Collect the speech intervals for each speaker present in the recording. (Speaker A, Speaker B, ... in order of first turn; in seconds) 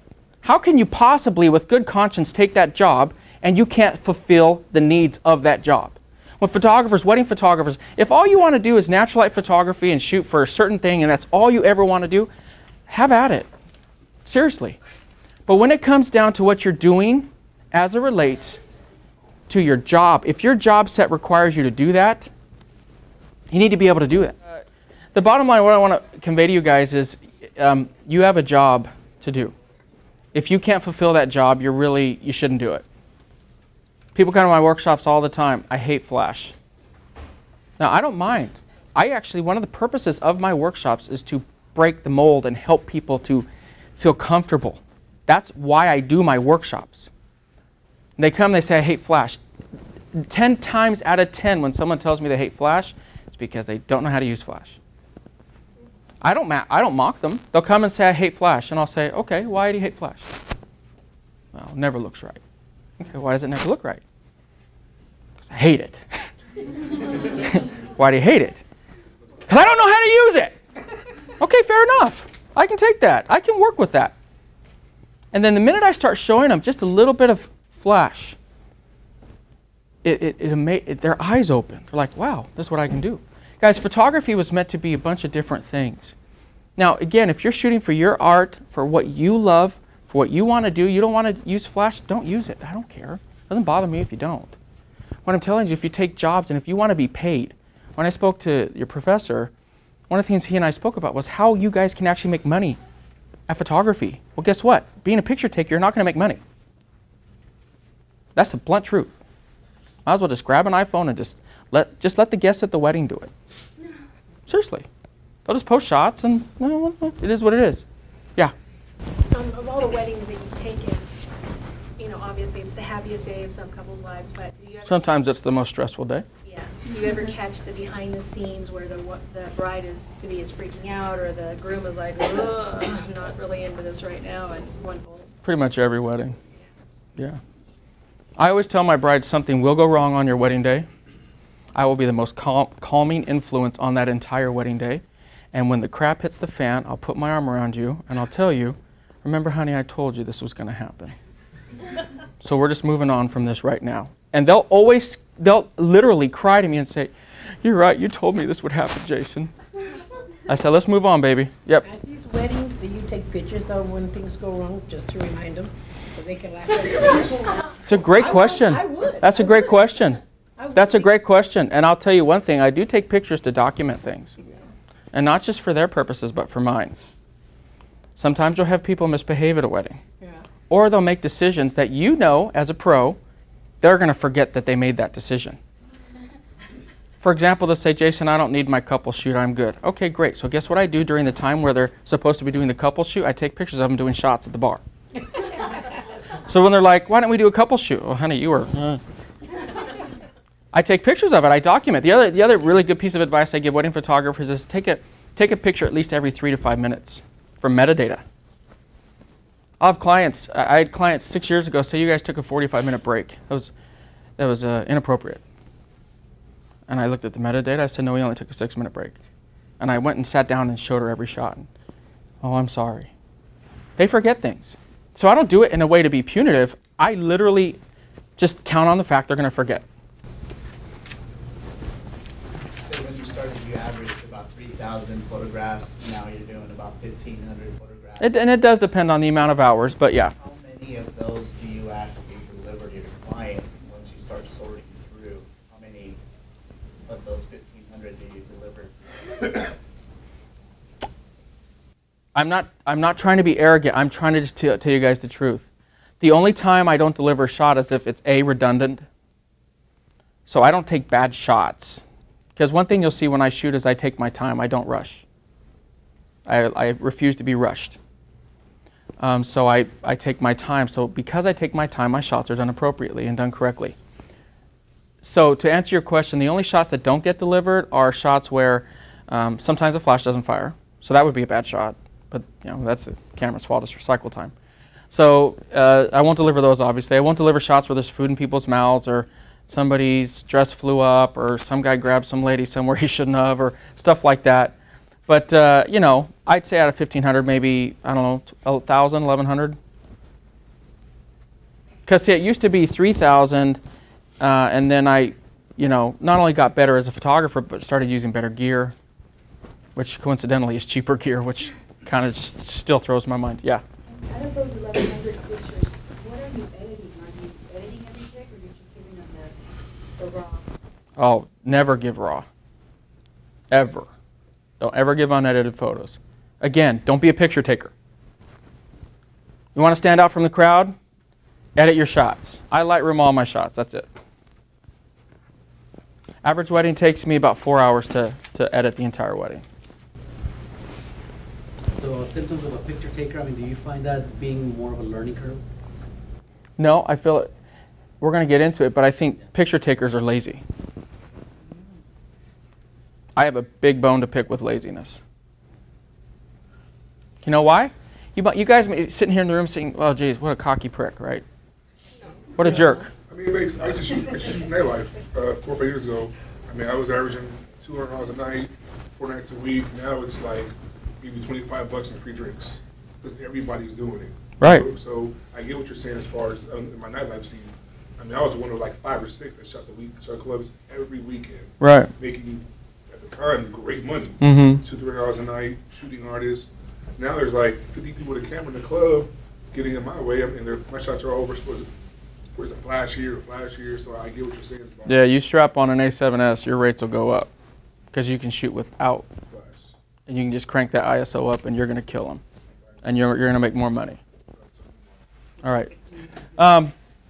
Speaker A: 0.4-12.3, 12.9-13.5, 14.2-14.8, 15.5-18.6, 19.5-22.3, 23.5-24.6, 25.1-29.5, 30.3-32.8, 34.1-36.5, 37.8-47.1, 48.2-49.4, 50.1-54.8, 56.2-60.3, 61.5-62.4, 63.0-64.0, 65.4-66.1, 67.3-68.6, 69.5-70.6, 71.4-74.2, 75.3-78.4, 80.0-86.2, 86.8-94.5, 95.3-99.5, 100.1-102.8, 103.5-106.4, 108.3-109.2, 110.1-113.3, 114.5-114.9, 115.5-118.5, 124.8-126.3, 135.4-136.4, 138.4-140.9, 141.8-151.2, 152.4-157.1, 157.6-159.5, 160.5-161.9, 167.8-170.2, 170.7-174.3, 175.1-176.9, 178.2-180.0, 180.7-183.2, 183.8-185.6, 187.2-194.8, 196.5-199.0, 200.7-208.2, 209.8-213.7, 214.4-215.4, 216.9-219.2, 219.8-221.7, 222.4-223.1, 224.0-227.8, 228.4-229.9, 238.2-240.3, 252.3-255.7, 256.2-259.1, 260.5-262.0, 262.6-265.2, 266.5-268.0, 269.2-274.0, 275.2-284.5, 285.1-294.8, 295.3-299.8, 302.1-303.8, 304.4-308.9, 310.0-313.8, 321.2-322.5, 323.7-324.1, 324.8-327.9, 329.8-330.9, 331.8-334.1, 336.4-339.6, 346.8-347.5, 348.2-350.6, 353.4-355.2, 357.4-361.4, 362.6-363.1, 374.6-374.9, 381.8-382.1, 384.4-384.8, 395.1-397.5, 398.1-399.3, 400.3-402.4, 403.0-404.2, 405.6-405.9, 406.6-406.9
Speaker B: 119.3-121.1, 122.0-125.0, 126.5-135.3
Speaker C: 161.8-169.8, 170.6-171.1
Speaker D: 232.8-238.4, 240.4-246.2, 247.1-249.7
Speaker E: 314.1-319.5, 320.2-320.6
Speaker F: 341.9-345.6
Speaker G: 363.3-391.9, 392.6-395.2, 399.5-399.9, 404.6-405.2